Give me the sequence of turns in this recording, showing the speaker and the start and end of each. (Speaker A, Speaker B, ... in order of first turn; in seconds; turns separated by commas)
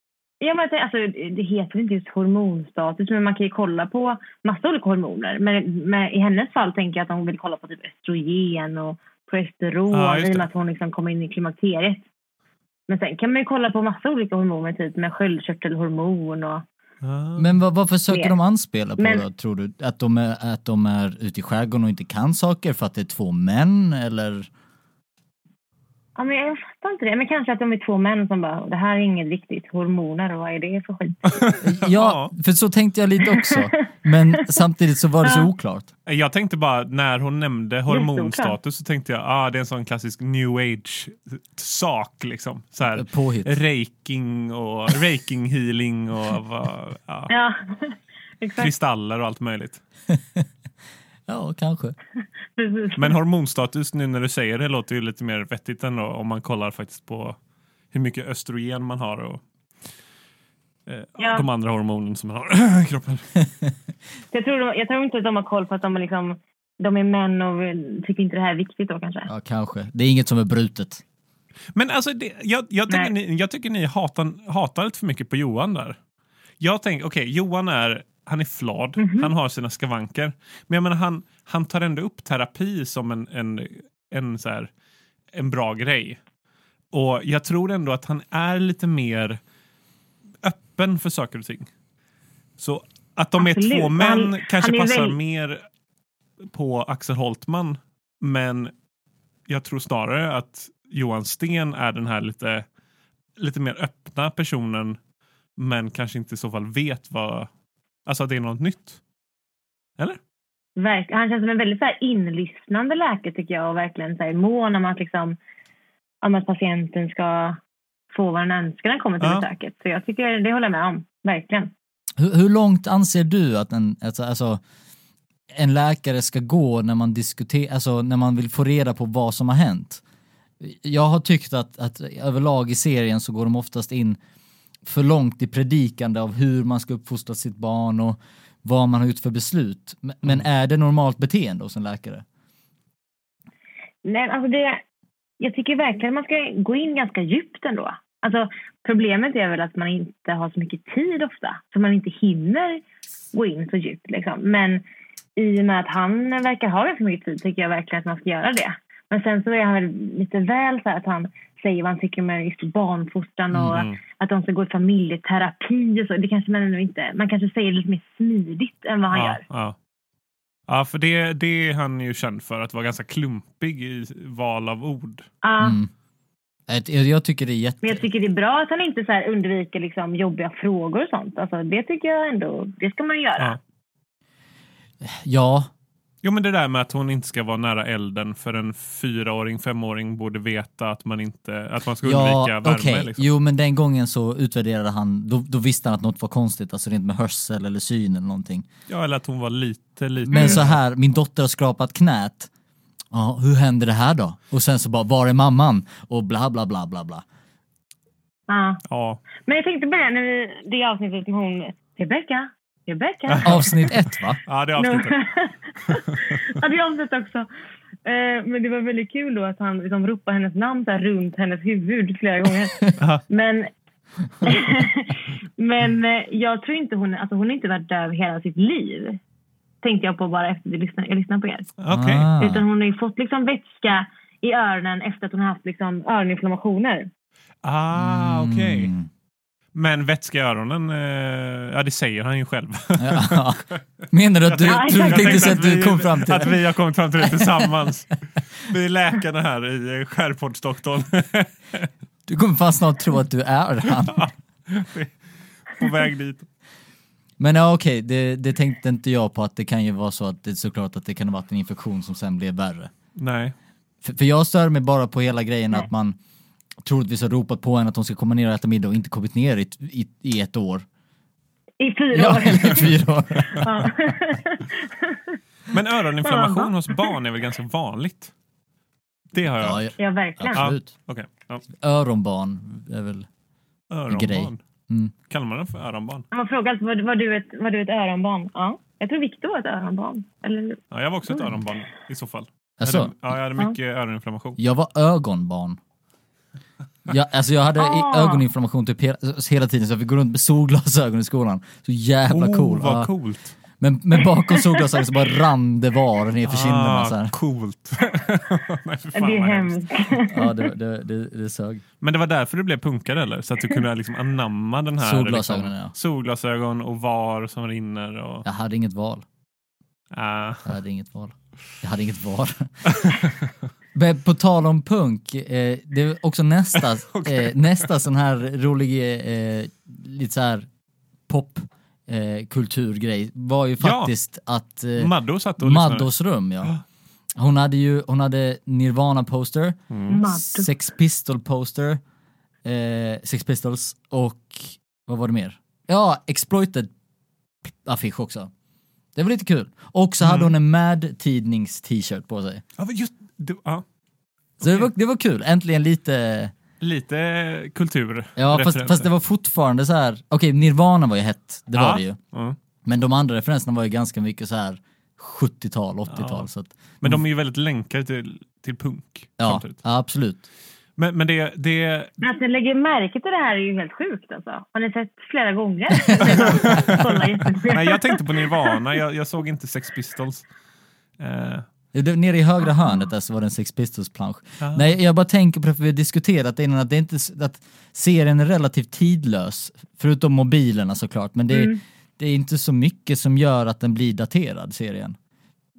Speaker A: 0.4-12.0, Speaker B: 9.9-10.5, Speaker A: 12.9-16.6, Speaker B: 17.0-17.5, Speaker C: 17.4-24.5, Speaker A: 19.0-19.2, Speaker A: 26.2-31.2, Speaker B: 31.3-32.3, Speaker C: 31.6-35.9, Speaker B: 36.1-47.3, Speaker A: 37.9-38.6, Speaker C: 42.9-43.6, Speaker A: 47.3-48.7, Speaker B: 48.6-49.8, Speaker C: 50.1-50.5, Speaker C: 51.3-52.0, Speaker A: 52.6-53.2, Speaker B: 53.0-57.4, Speaker B: 57.9-59.4, Speaker B: 60.9-63.3, Speaker A: 61.2-61.5, Speaker A: 64.3-69.3, Speaker C: 69.3-71.0, Speaker B: 71.7-76.0, Speaker B: 76.6-84.7, Speaker A: 79.0-79.3, Speaker B: 85.3-86.2, Speaker B: 86.9-89.4, Speaker B: 90.4-91.7, Speaker B: 92.6-95.6, Speaker A: 93.4-95.2, Speaker B: 96.5-98.7, Speaker B: 99.5-102.7, Speaker B: 103.4-105.0, Speaker B: 105.6-107.5, Speaker B: 108.1-109.0, Speaker A: 110.8-115.4, Speaker A: 116.2-117.6, Speaker A: 118.1-121.7, Speaker B: 119.2-119.5, Speaker C: 122.2-124.6, Speaker C: 125.5-130.0, Speaker C: 130.6-134.2, Speaker C: 134.8-142.2, Speaker A: 144.0-144.8, Speaker A: 145.4-154.8, Speaker A: 155.4-169.4, Speaker B: 163.5-164.0, Speaker B: 169.1-169.8, Speaker B: 170.7-175.3, Speaker A: 175.4-175.8, Speaker C: 175.6-175.9, Speaker C: 176.7-178.1, Speaker A: 177.8-183.6, Speaker C: 185.0-185.7, Speaker B: 186.2-193.2, Speaker C: 192.0-198.7, Speaker B: 198.9-200.8, Speaker C: 200.3-202.5, Speaker A: 200.3-200.6, Speaker C: 203.1-207.2, Speaker A: 208.5-208.8, Speaker B: 208.9-209.2, Speaker A: 209.4-213.7, Speaker B: 213.3-213.7, Speaker C: 213.4-214.4, Speaker B: 214.5-215.2, Speaker A: 214.8-217.5, Speaker A: 218.1-223.7, Speaker A: 224.5-229.2, Speaker A: 229.8-231.7, Speaker B: 231.8-232.3, Speaker C: 231.9-232.7, Speaker A: 232.4-237.1, Speaker B: 237.6-238.9, Speaker C: 237.9-239.1, Speaker B: 239.7-243.8, Speaker C: 243.0-246.6, Speaker B: 244.5-251.9, Speaker A: 244.7-245.6, Speaker C: 247.3-247.6, Speaker C: 252.3-254.3, Speaker B: 254.1-256.4, Speaker C: 257.4-262.9, Speaker B: 263.2-263.5, Speaker C: 264.0-266.2, Speaker C: 266.9-270.9, Speaker A: 271.8-275.4, Speaker C: 272.1-273.9, Speaker B: 275.7-278.3, Speaker A: 276.2-277.1, Speaker B: 279.3-279.9, Speaker C: 279.6-280.9, Speaker A: 280.0-280.6, Speaker B: 280.5-281.6, Speaker C: 281.7-283.3, Speaker B: 283.9-284.6, Speaker C: 284.1-285.1, Speaker B: 285.3-286.3, Speaker A: 286.3-291.6, Speaker B: 290.9-294.6, Speaker C: 292.8-293.1, Speaker C: 294.6-295.8, Speaker C: 297.1-303.1, Speaker A: 297.8-298.4, Speaker B: 302.3-303.6, Speaker C: 303.8-307.3, Speaker B: 306.5-309.8, Speaker A: 309.1-310.5, Speaker C: 310.3-311.8, Speaker B: 312.0-318.4, Speaker C: 315.0-315.9, Speaker C: 318.4-319.2, Speaker B: 320.1-320.8, Speaker C: 320.7-323.1, Speaker B: 322.9-323.5, Speaker C: 323.9-330.7, Speaker B: 326.8-327.5, Speaker C: 331.3-336.7, Speaker B: 333.8-334.1, Speaker B: 335.0-336.1, Speaker C: 337.4-342.0, Speaker B: 339.9-340.2, Speaker A: 340.1-340.7, Speaker C: 342.6-346.9, Speaker C: 347.8-348.5, Speaker C: 349.1-352.6, Speaker B: 350.2-350.5, Speaker B: 352.8-353.8, Speaker B: 354.6-354.9, Speaker C: 354.6-356.5, Speaker B: 356.8-359.1, Speaker C: 358.4-362.2, Speaker B: 361.8-362.6, Speaker C: 362.9-367.2, Speaker B: 366.1-366.5, Speaker B: 367.0-369.8, Speaker C: 369.4-370.4, Speaker B: 371.0-372.1, Speaker A: 372.2-378.8, Speaker B: 376.2-377.0, Speaker C: 376.2-377.0, Speaker B: 377.7-380.4, Speaker B: 381.2-381.6, Speaker C: 381.9-395.2, Speaker B: 384.6-384.9, Speaker A: 391.5-391.8